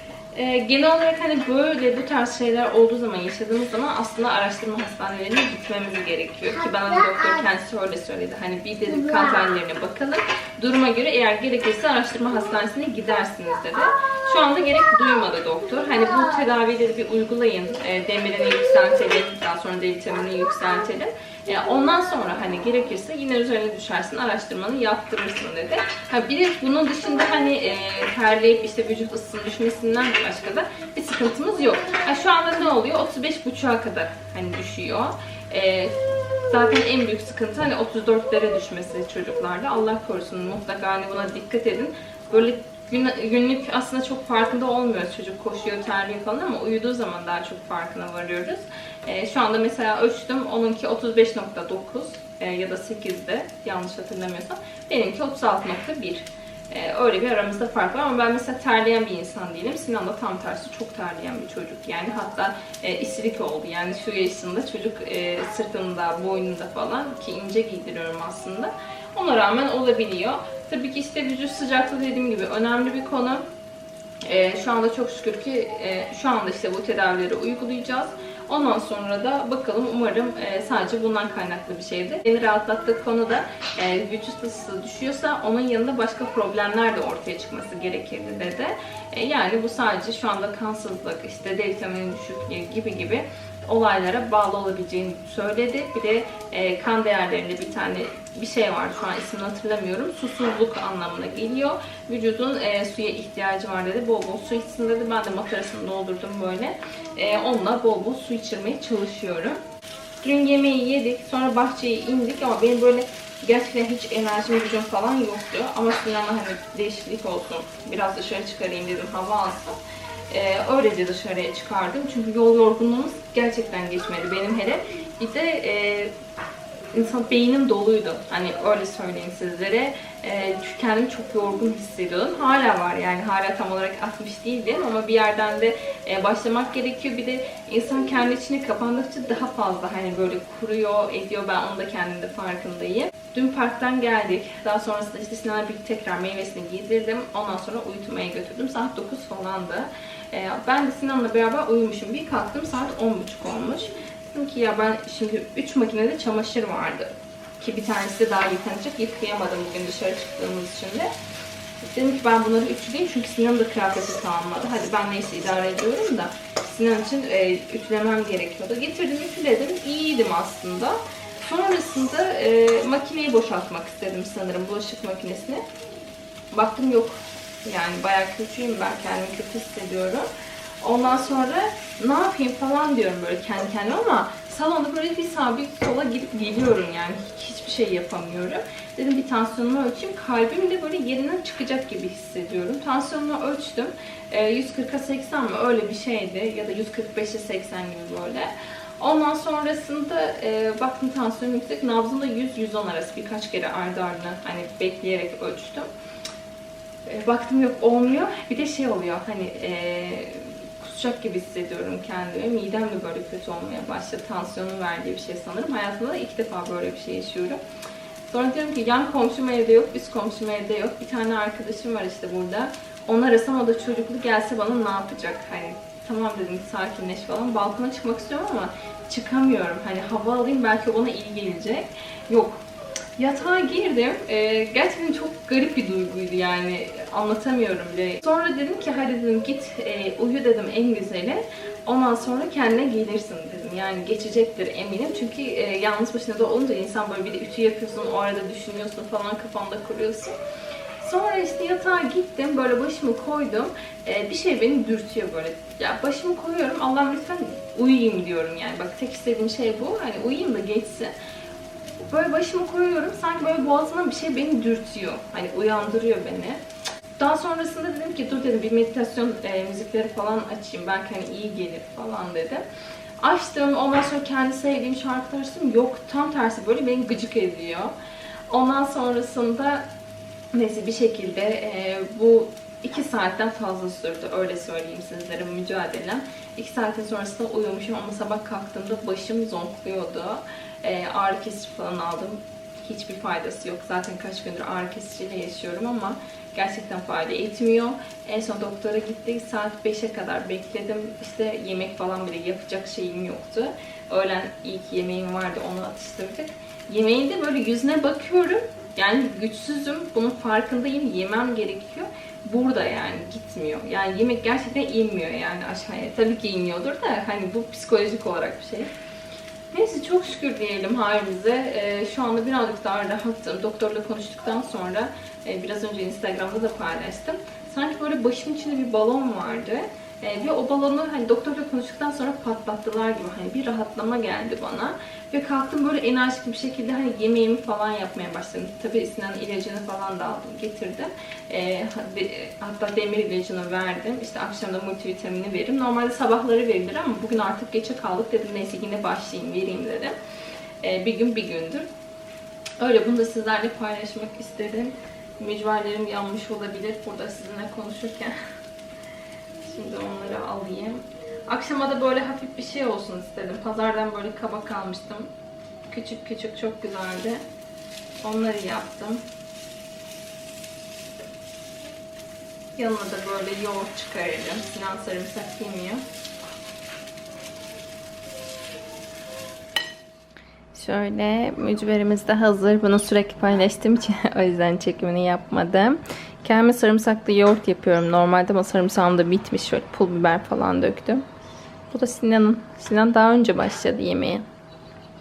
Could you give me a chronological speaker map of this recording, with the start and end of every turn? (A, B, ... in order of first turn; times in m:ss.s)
0:00.3-1:13.4 A
1:14.3-1:49.6 A
1:50.2-1:59.8 A
2:00.3-2:06.1 A
2:06.9-2:41.1 A
2:41.9-2:55.6 A
2:56.5-3:00.3 A
3:00.8-3:25.9 A
3:27.1-3:37.6 A
3:38.3-3:52.6 A
3:53.2-4:10.4 A
4:11.0-4:21.1 A
4:22.0-4:26.6 A
4:27.2-4:32.6 A
4:33.2-4:37.9 A
4:38.5-4:39.9 A
4:40.5-5:18.9 A
5:19.7-5:50.2 A
5:50.8-5:51.9 A
5:52.8-5:58.4 A
5:59.6-6:05.3 A
6:05.9-6:07.4 A
6:08.2-6:09.2 A
6:12.8-6:16.0 A
6:20.7-6:31.2 A
6:31.9-6:34.4 A